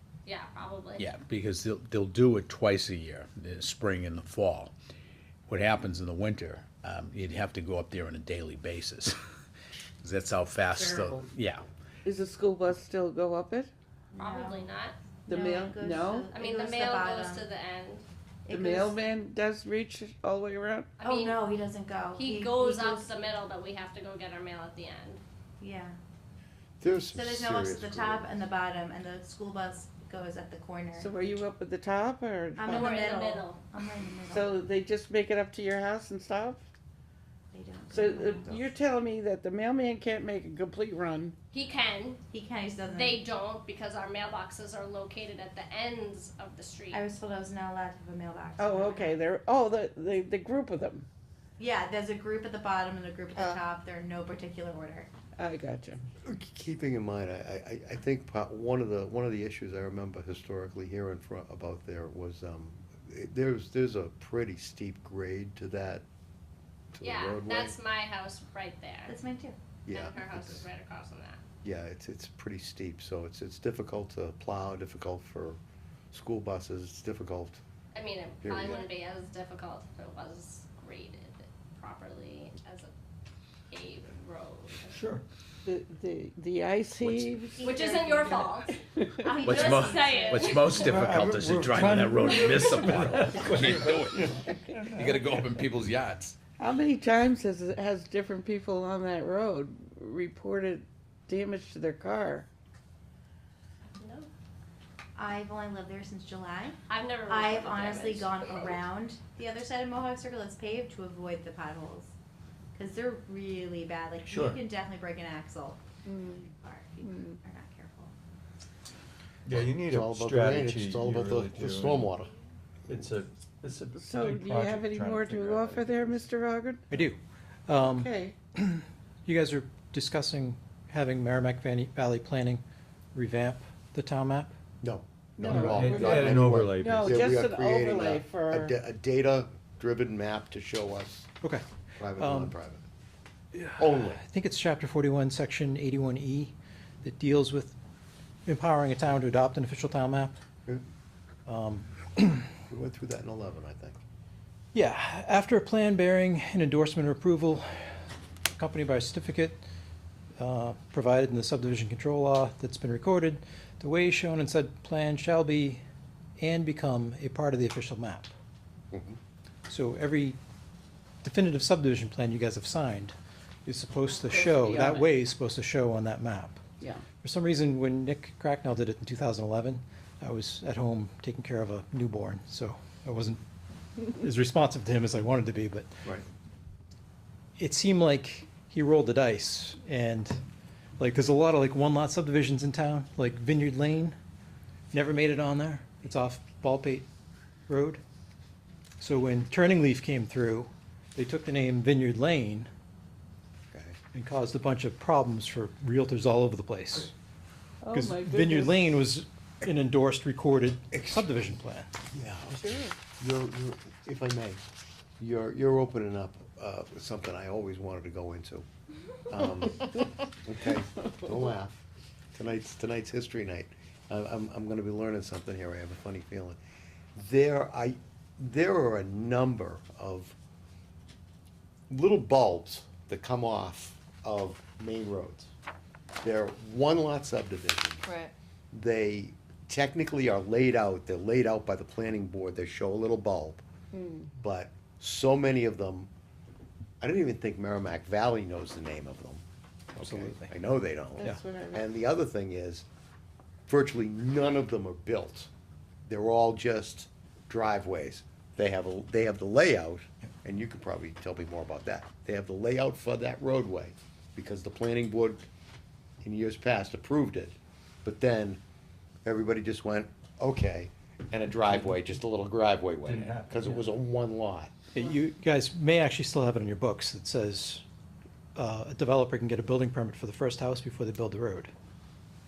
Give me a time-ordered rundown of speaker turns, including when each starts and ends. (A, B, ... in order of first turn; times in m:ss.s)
0:00.3-0:01.1 A
0:01.0-0:04.7 B
0:05.5-0:09.2 B
0:10.0-0:11.7 B
0:10.8-0:11.1 C
0:12.0-0:13.7 D
0:14.1-0:14.7 C
0:14.2-0:15.0 A
0:15.3-0:17.5 C
0:15.3-0:16.3 D
0:16.3-0:18.0 A
0:18.5-0:19.0 C
0:18.5-0:21.0 D
0:21.0-0:21.4 A
0:21.0-0:23.1 C
0:22.2-0:25.2 A
0:25.6-0:26.0 C
0:26.8-0:28.3 E
0:27.1-0:31.2 C
0:31.0-0:33.0 D
0:32.6-0:34.6 C
0:32.7-0:33.6 A
0:34.3-0:36.6 D
0:37.5-0:38.7 C
0:37.9-0:41.4 D
0:41.5-0:42.2 A
0:42.3-0:43.2 C
0:42.9-0:47.0 A
0:46.9-0:49.2 C
0:48.6-0:51.1 D
0:51.6-0:55.1 C
0:53.4-0:53.6 D
0:55.4-0:56.0 D
0:56.2-1:06.0 E
1:06.9-1:07.8 E
1:07.0-1:09.2 A
1:09.1-1:09.6 C
1:09.9-1:10.7 E
1:09.9-1:11.4 A
1:11.6-1:15.6 E
1:16.1-1:17.6 E
1:17.9-1:22.9 A
1:18.4-1:18.8 E
1:23.7-1:25.0 A
1:24.9-1:25.2 F
1:25.6-1:29.4 D
1:27.6-1:31.0 A
1:27.6-1:28.4 C
1:29.4-1:34.2 B
1:29.4-1:30.9 C
1:30.6-1:35.5 F
1:33.1-1:33.5 G
1:34.2-1:34.9 D
1:35.0-1:36.4 B
1:36.6-1:42.5 D
1:44.0-1:44.3 A
1:45.2-1:46.8 C
1:46.9-1:48.8 A
1:47.3-1:52.1 C
1:52.8-1:55.8 C
1:54.3-1:54.6 F
1:56.1-1:56.5 D
1:56.4-1:58.1 C
1:57.0-1:57.4 D
1:59.5-2:02.1 F
1:59.6-2:02.3 E
2:02.9-2:06.3 F
2:04.0-2:06.9 D
2:06.9-2:12.6 G
2:07.8-2:08.4 D
2:13.1-2:14.5 G
2:14.8-2:21.3 E
2:15.5-2:17.4 F
2:15.5-2:18.7 D
2:22.0-2:22.8 E
2:22.2-2:22.6 G
2:23.5-2:27.8 G
2:23.8-2:24.2 E
2:28.5-2:30.3 G
2:31.5-2:32.5 G
2:32.7-2:34.0 E
2:34.7-2:37.9 G
2:38.5-2:39.6 G
2:40.4-2:45.8 G
2:46.4-2:48.3 G
2:48.9-2:49.2 E
2:49.7-2:50.4 G
2:51.2-2:53.1 G
2:53.6-2:56.6 G
2:54.3-2:55.1 D
2:57.2-3:03.4 G
3:04.1-3:05.9 G
3:07.6-3:10.4 G
3:11.0-3:14.2 G
3:14.9-3:17.1 G
3:17.7-3:18.0 G
3:19.0-3:22.7 G
3:23.7-3:24.0 E
3:24.1-3:27.1 G
3:27.8-3:28.8 D
3:27.9-3:31.9 G
3:32.1-3:34.6 E
3:32.5-3:33.0 D
3:35.2-3:38.7 E
3:39.3-3:41.8 E
3:42.4-3:46.6 E
3:47.2-3:50.4 E
3:51.9-3:55.5 E
3:56.2-3:58.1 E
3:58.7-4:03.6 E
4:03.9-4:04.3 D
4:04.4-4:06.1 E
4:07.0-4:09.4 E
4:10.0-4:10.5 G
4:10.0-4:12.9 E
4:11.2-4:11.8 D
4:13.7-4:15.5 E
4:16.1-4:25.5 E
4:26.2-4:28.6 E
4:29.2-4:34.7 E
4:33.0-4:33.7 F
4:35.0-4:37.8 G
4:38.6-4:41.7 G